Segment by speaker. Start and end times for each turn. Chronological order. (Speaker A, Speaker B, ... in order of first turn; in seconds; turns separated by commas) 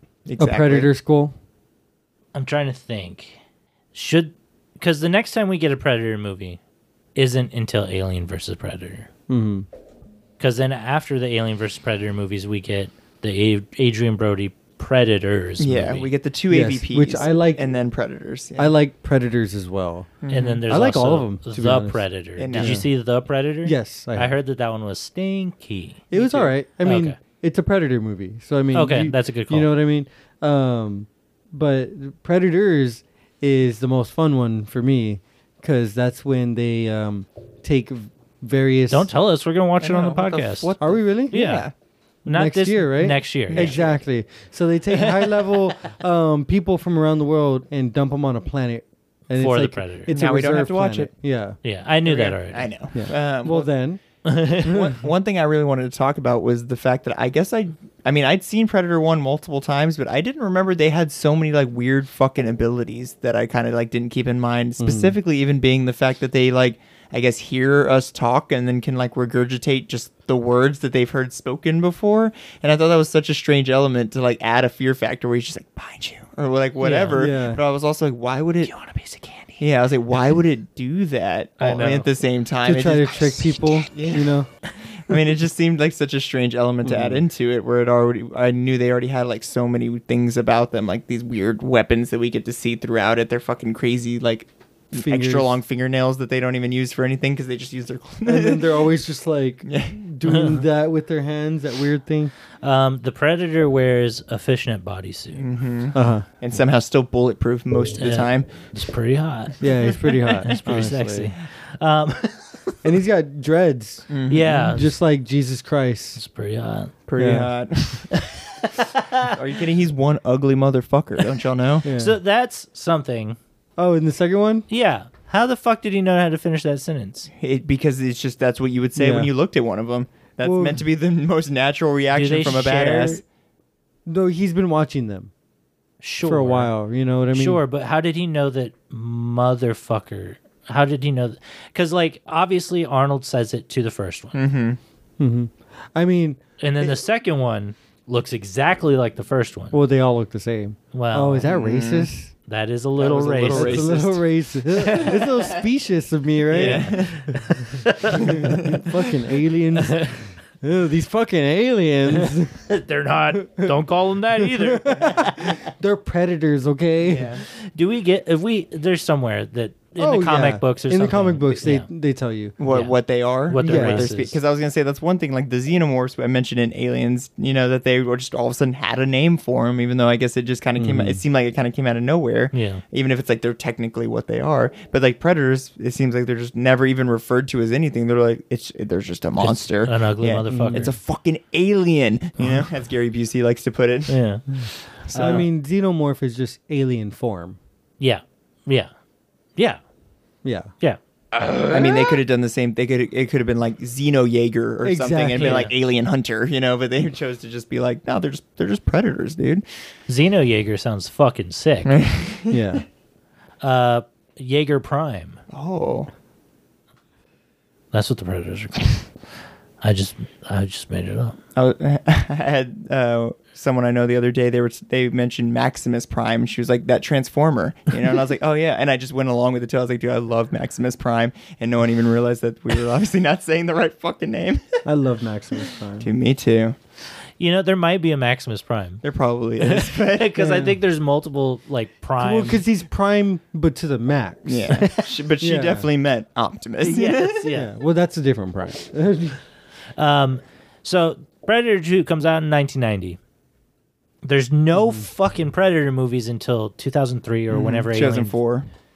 Speaker A: 0.2-0.9, Speaker B: 0.4-1.3, Speaker C: 2.3-3.4, Speaker C: 3.9-6.6, Speaker C: 7.1-9.1, Speaker B: 9.3-9.7, Speaker C: 10.4-16.1, Speaker A: 15.6-18.7, Speaker B: 16.5-17.7, Speaker B: 18.6-22.9, Speaker A: 20.2-20.6, Speaker C: 20.3-26.1, Speaker A: 22.4-22.9, Speaker B: 23.6-24.3, Speaker B: 26.1-39.1, Speaker A: 26.1-26.5, Speaker C: 26.8-27.1, Speaker C: 28.7-29.7, Speaker C: 38.9-40.7, Speaker A: 39.8-41.7, Speaker B: 40.8-41.6, Speaker C: 41.3-41.7, Speaker C: 42.2-43.8, Speaker B: 42.3-51.6, Speaker A: 43.5-44.0, Speaker C: 49.4-50.1, Speaker A: 50.1-51.1, Speaker C: 51.6-52.7, Speaker A: 52.0-53.7, Speaker B: 52.9-54.0, Speaker C: 54.2-54.7, Speaker A: 54.6-78.7, Speaker B: 54.6-55.0, Speaker B: 64.8-65.1, Speaker C: 76.8-77.2, Speaker B: 77.1-77.6, Speaker C: 78.6-79.6, Speaker A: 79.6-84.3, Speaker C: 81.6-82.0, Speaker B: 82.6-84.5, Speaker A: 85.1-98.8, Speaker B: 86.8-87.2, Speaker B: 94.9-95.6, Speaker B: 98.2-102.3, Speaker A: 99.6-100.0, Speaker C: 100.3-100.5, Speaker C: 102.6-105.4, Speaker A: 105.3-108.5, Speaker B: 105.9-106.2, Speaker C: 108.0-109.5, Speaker B: 109.6-111.3, Speaker C: 110.4-112.7, Speaker B: 112.8-116.2, Speaker A: 114.1-114.7, Speaker C: 114.3-114.9, Speaker C: 116.2-116.9, Speaker A: 117.1-118.1, Speaker B: 117.2-117.5, Speaker C: 118.2-119.2, Speaker A: 119.3-121.8, Speaker B: 121.8-122.2, Speaker C: 121.9-123.4, Speaker B: 123.8-124.7, Speaker C: 124.7-127.3, Speaker A: 127.4-133.2, Speaker B: 128.9-129.3, Speaker B: 130.4-130.8, Speaker C: 132.1-133.2, Speaker B: 134.1-135.3, Speaker C: 136.0-136.7, Speaker B: 136.2-137.6, Speaker C: 137.3-144.4, Speaker A: 144.3-144.8, Speaker B: 145.2-146.4, Speaker C: 146.6-149.8, Speaker B: 149.7-152.3, Speaker C: 150.9-151.5, Speaker A: 151.4-152.1, Speaker C: 152.5-153.9, Speaker A: 153.0-154.2, Speaker B: 153.4-157.4, Speaker C: 154.8-155.2, Speaker A: 156.5-157.3, Speaker C: 156.5-158.8, Speaker B: 158.2-162.7, Speaker A: 158.3-158.7, Speaker C: 159.8-160.3, Speaker C: 162.7-165.6, Speaker B: 163.4-163.8, Speaker B: 164.3-167.3, Speaker A: 167.0-167.4, Speaker C: 167.7-171.9, Speaker B: 170.0-172.5, Speaker A: 172.6-194.2, Speaker C: 172.6-173.0, Speaker C: 173.5-174.4, Speaker B: 173.6-174.1, Speaker B: 180.8-181.2, Speaker C: 182.5-182.8, Speaker C: 189.4-190.9, Speaker B: 190.5-190.9, Speaker C: 194.1-194.4, Speaker B: 194.5-197.6, Speaker A: 195.1-195.4, Speaker C: 195.1-195.4, Speaker C: 198.0-198.9, Speaker B: 200.4-200.7, Speaker A: 201.7-209.6, Speaker B: 204.8-205.7, Speaker C: 205.4-205.7, Speaker C: 210.1-212.0, Speaker A: 211.9-212.8, Speaker B: 212.5-212.8, Speaker C: 213.6-215.4, Speaker A: 215.5-216.1, Speaker C: 217.9-219.0, Speaker C: 219.8-221.3, Speaker A: 221.6-234.8, Speaker B: 234.8-236.1, Speaker A: 236.0-236.8, Speaker C: 237.4-239.0, Speaker A: 239.0-240.4, Speaker C: 239.6-242.6, Speaker B: 240.4-240.8, Speaker B: 242.2-244.7, Speaker A: 244.4-247.4, Speaker C: 244.8-245.0, Speaker B: 245.4-245.9, Speaker C: 246.8-247.7, Speaker B: 247.5-249.4, Speaker C: 250.0-253.2, Speaker C: 254.2-258.3, Speaker B: 254.7-255.1, Speaker A: 257.5-258.7